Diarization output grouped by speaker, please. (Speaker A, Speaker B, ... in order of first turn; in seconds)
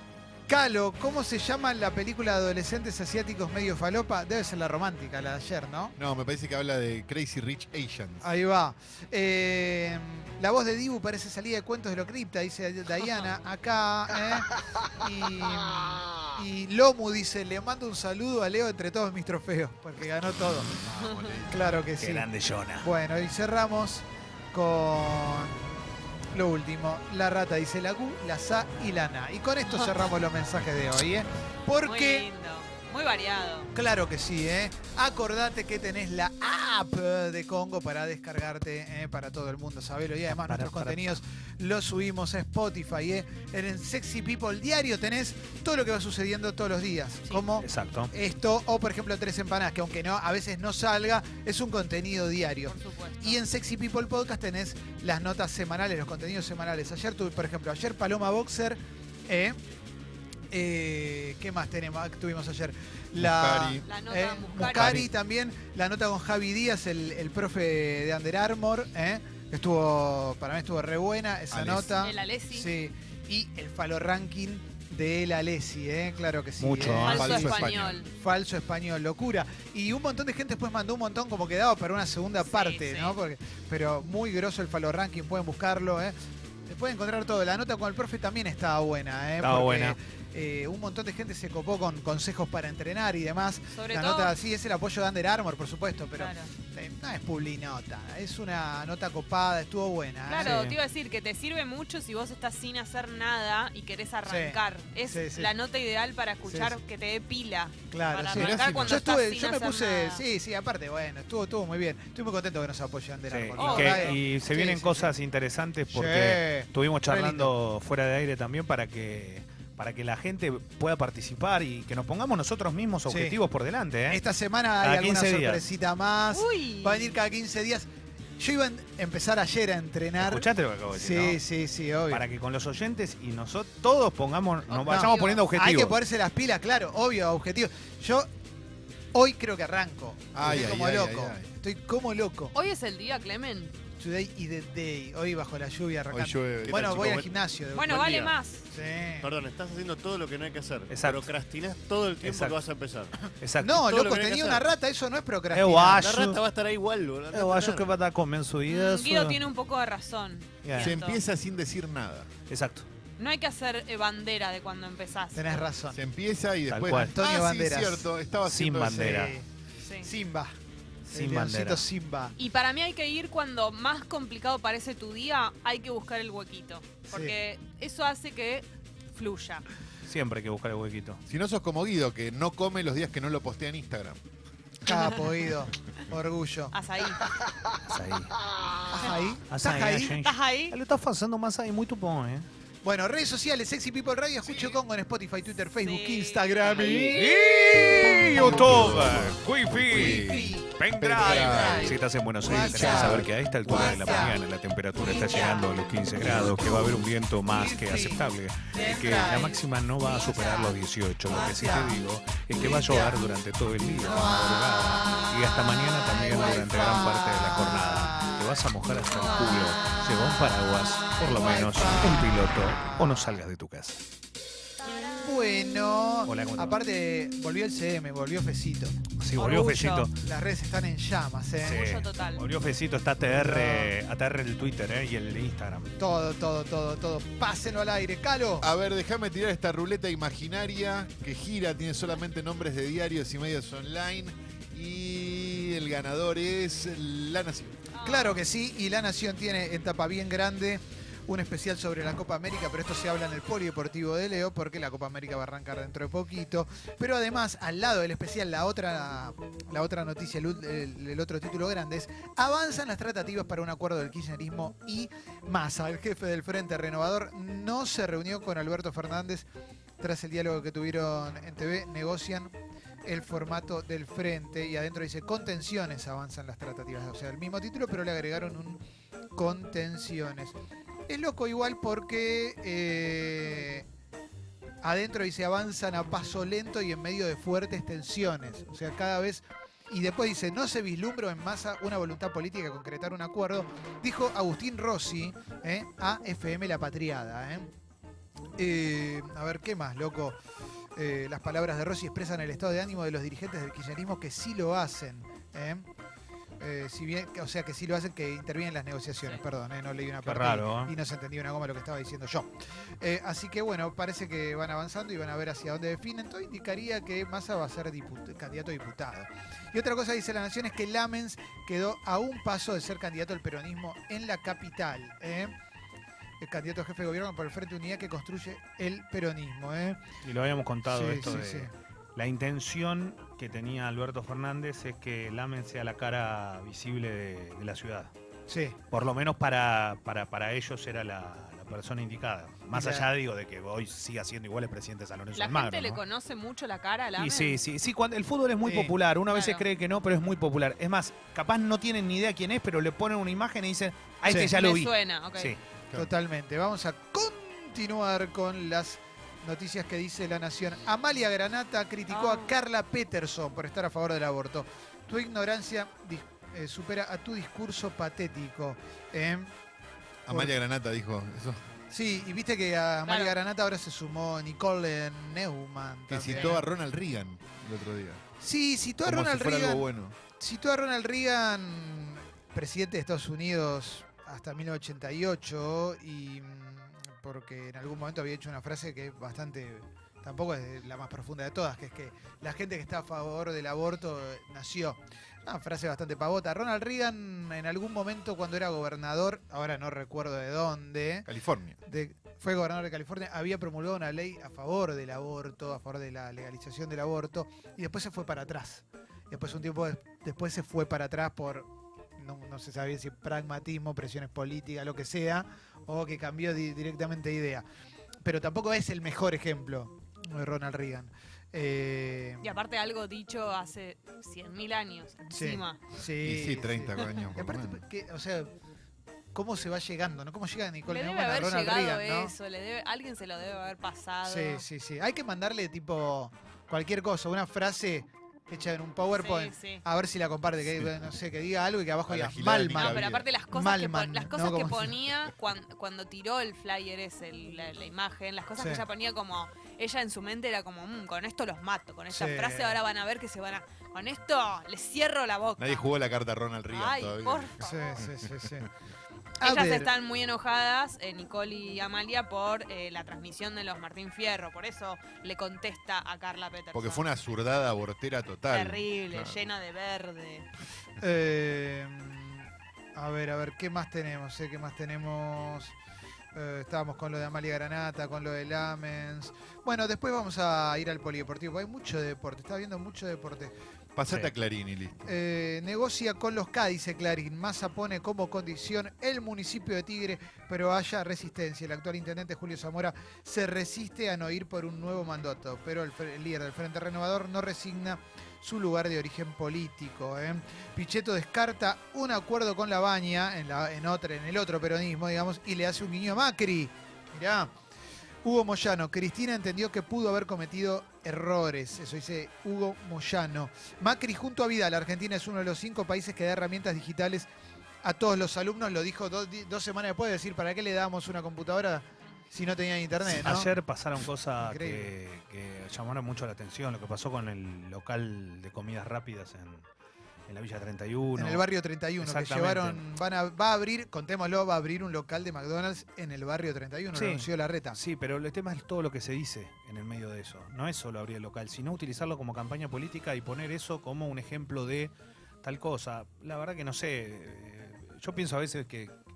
Speaker A: 0.5-6.0, 8.2-20.8, 21.5-22.3, 22.8-25.6, 26.3-32.3, 33.7-59.6, 60.5-86.1, 86.7-100.6, 104.2-105.5, 106.4-106.8, 107.9-115.1, 115.9-117.5, 123.1-123.4, 124.1-132.2, 134.9-138.3, 139.1-142.5, 144.0-149.3, 153.6-156.0, 165.3-166.0, 166.9-168.1, 168.8-169.4, 170.0-170.5, 171.1-172.4, 177.1-177.3, 184.8-186.8, 188.9-190.2, 192.8-199.1, 199.9-204.4, 205.0-205.7, 206.3-206.9, 207.4-209.5, 211.3-211.9, 212.6-213.2, 214.0-215.3, 216.1-218.7, 219.2-220.0, 221.1-223.3, 225.2-229.0, 230.2-231.8, 233.3-233.9, 236.0-238.7, 248.0-269.4, 270.0-272.5, 273.0-278.8, 279.4-280.6, 281.1-283.9, 284.8-297.7, 298.6-300.4, 300.9-305.9, 306.6-325.5, 326.4-330.0, 330.9-331.7, 338.5-338.8, 342.7-343.1, 348.6-349.0, 354.3-354.5, 355.9-369.5, 370.3-370.5, 371.9-376.6, 378.4-401.3, 401.9-417.6, 418.2-422.5, 425.3-428.5, 429.3-432.3, 434.2-445.0, 448.6-448.8, 452.1-452.8, 457.6-458.7, 459.4-459.9, 471.0-475.8, 476.3-483.5, 485.0-507.5, 508.2-517.3, 517.8-523.5, 524.4-524.9, 531.1-537.8
Speaker B: 6.0-8.3, 20.7-21.7, 63.1-63.9, 64.8-65.0, 71.5-71.9, 76.9-78.0, 108.3-109.0, 140.3-141.5, 146.1-147.1, 160.7-162.3, 165.9-169.2, 181.3-184.2, 198.3-203.3, 238.6-247.8, 370.3-371.6, 376.1-378.2, 379.0-380.1, 401.2-401.8, 426.2-427.8, 442.1-443.2, 455.6-458.5, 466.7-469.5, 483.9-485.1
Speaker C: 22.0-22.9, 40.3-41.2, 47.6-48.1, 76.6-77.5, 89.4-90.0, 100.4-100.8, 113.3-124.2, 124.8-125.6, 130.2-131.4, 132.1-136.0, 150.9-151.3, 152.2-152.6, 153.4-153.8, 155.5-156.4, 157.3-159.4, 160.6-160.9, 162.5-162.9, 166.7-167.1, 168.4-169.3, 171.1-171.9, 180.0-181.2, 187.9-188.3, 189.5-192.5, 196.8-224.0, 226.2-226.8, 229.2-230.1, 231.6-235.9, 310.2-310.9, 330.2-338.1, 338.9-346.0, 347.2-355.6, 523.1-529.6, 530.3-531.4, 532.0-532.8, 536.9-549.0
Speaker D: 31.8-33.7, 52.7-53.4, 63.9-65.0, 72.0-72.7, 77.0-78.1, 82.4-83.2, 93.7-94.3, 96.2-96.5, 100.2-110.2, 113.6-114.2, 126.3-127.2, 134.7-135.5, 142.5-143.7, 147.7-148.6, 158.7-161.2, 163.2-165.6, 169.8-170.1, 172.4-179.6, 184.9-185.3, 186.7-187.2, 190.2-190.8, 195.8-197.0, 205.2-205.6, 208.8-209.5, 210.1-210.7, 224.8-225.5, 229.4-230.0, 231.6-232.4, 247.9-248.4, 345.4-347.6, 349.3-349.6, 354.2-355.5, 362.1-362.5, 373.1-373.4, 422.4-425.8, 430.9-434.6, 439.1-439.8, 442.8-455.9, 456.7-458.0, 459.4-467.0, 468.5-470.4
Speaker E: 146.7-147.3, 149.2-154.6, 155.9-157.9